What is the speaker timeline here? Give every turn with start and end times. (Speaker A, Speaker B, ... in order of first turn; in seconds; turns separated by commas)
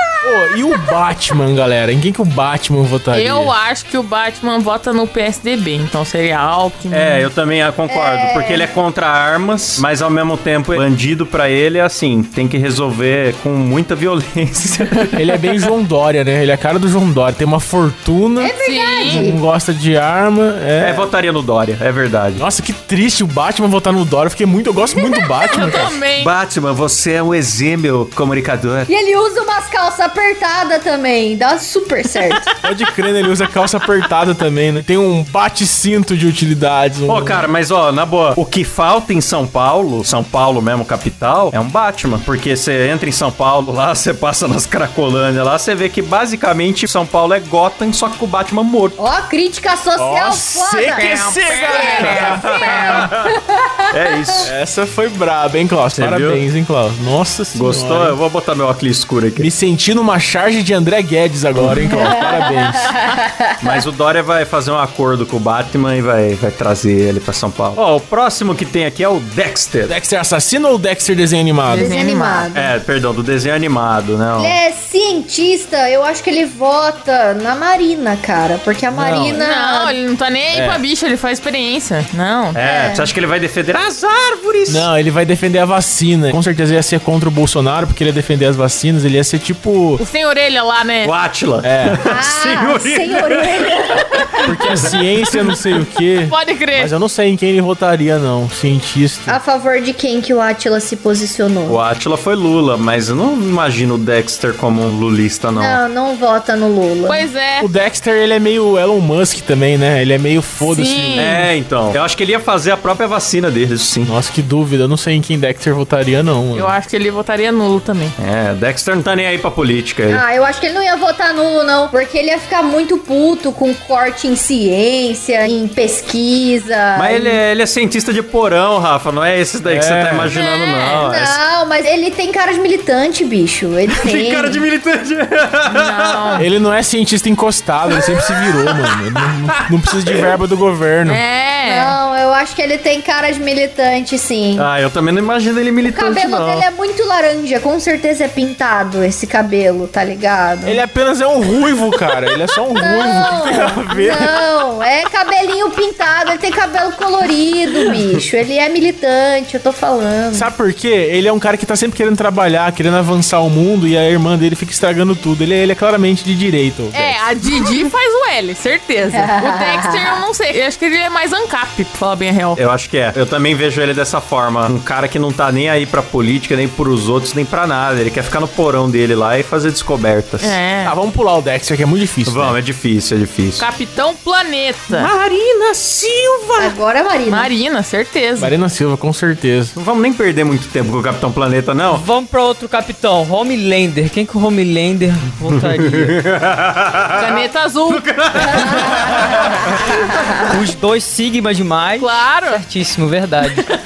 Speaker A: 0.2-3.5, Speaker B: 3.1-7.3, Speaker C: 6.9-15.2, Speaker D: 7.9-8.7, Speaker A: 15.1-21.1, Speaker D: 18.4-19.4, Speaker B: 18.6-19.2, Speaker C: 20.8-22.4, Speaker A: 22.4-26.0, Speaker D: 25.0-25.5, Speaker B: 25.5-26.3, Speaker C: 26.2-28.9, Speaker D: 28.9-32.5, Speaker A: 32.6-37.5, Speaker C: 37.1-49.0, Speaker D: 49.0-54.5, Speaker A: 50.0-52.8, Speaker B: 50.9-53.1, Speaker C: 52.1-53.3, Speaker C: 53.9-54.5, Speaker A: 54.4-58.2, Speaker C: 55.9-56.4, Speaker C: 57.5-59.5, Speaker A: 59.4-62.9, Speaker C: 61.6-61.9, Speaker D: 61.9-63.8, Speaker C: 63.6-69.9, Speaker A: 69.8-71.9, Speaker B: 71.7-72.5, Speaker D: 71.7-72.7, Speaker C: 72.5-74.5, Speaker D: 74.3-80.0, Speaker A: 78.9-79.4, Speaker B: 79.4-82.6, Speaker A: 80.5-80.8, Speaker C: 82.5-84.9, Speaker D: 82.6-83.1, Speaker A: 84.7-90.0, Speaker B: 90.0-91.1, Speaker C: 91.0-94.9, Speaker A: 91.6-92.0, Speaker D: 92.0-94.5, Speaker A: 94.4-99.4, Speaker B: 96.3-96.9, Speaker D: 99.3-101.8, Speaker C: 101.7-105.8, Speaker D: 105.5-107.2, Speaker B: 107.1-107.7, Speaker A: 107.6-111.4, Speaker B: 110.6-111.5, Speaker C: 111.2-114.1, Speaker A: 114.0-116.7, Speaker B: 116.5-118.2, Speaker C: 118.2-120.2, Speaker D: 120.1-127.4, Speaker C: 127.0-131.4, Speaker A: 129.6-130.3, Speaker B: 130.3-131.1, Speaker D: 130.8-134.6, Speaker C: 133.9-136.4, Speaker B: 135.7-136.4, Speaker A: 136.4-141.2, Speaker B: 141.1-141.9, Speaker D: 141.6-144.7, Speaker C: 144.6-146.6, Speaker D: 145.8-150.8, Speaker A: 150.6-154.4, Speaker D: 152.8-160.5, Speaker A: 160.3-167.2, Speaker B: 166.9-172.6, Speaker D: 169.1-170.2, Speaker C: 172.6-180.6, Speaker B: 180.4-180.9, Speaker A: 180.8-182.6, Speaker C: 182.2-183.7, Speaker B: 183.6-185.1, Speaker C: 184.9-186.7, Speaker D: 186.6-187.5, Speaker B: 187.3-188.5, Speaker A: 188.4-189.7, Speaker C: 189.7-192.0, Speaker E: 191.9-196.1, Speaker C: 195.5-200.5, Speaker B: 197.2-198.0, Speaker D: 198.7-199.1, Speaker E: 200.4-203.7, Speaker B: 202.0-202.6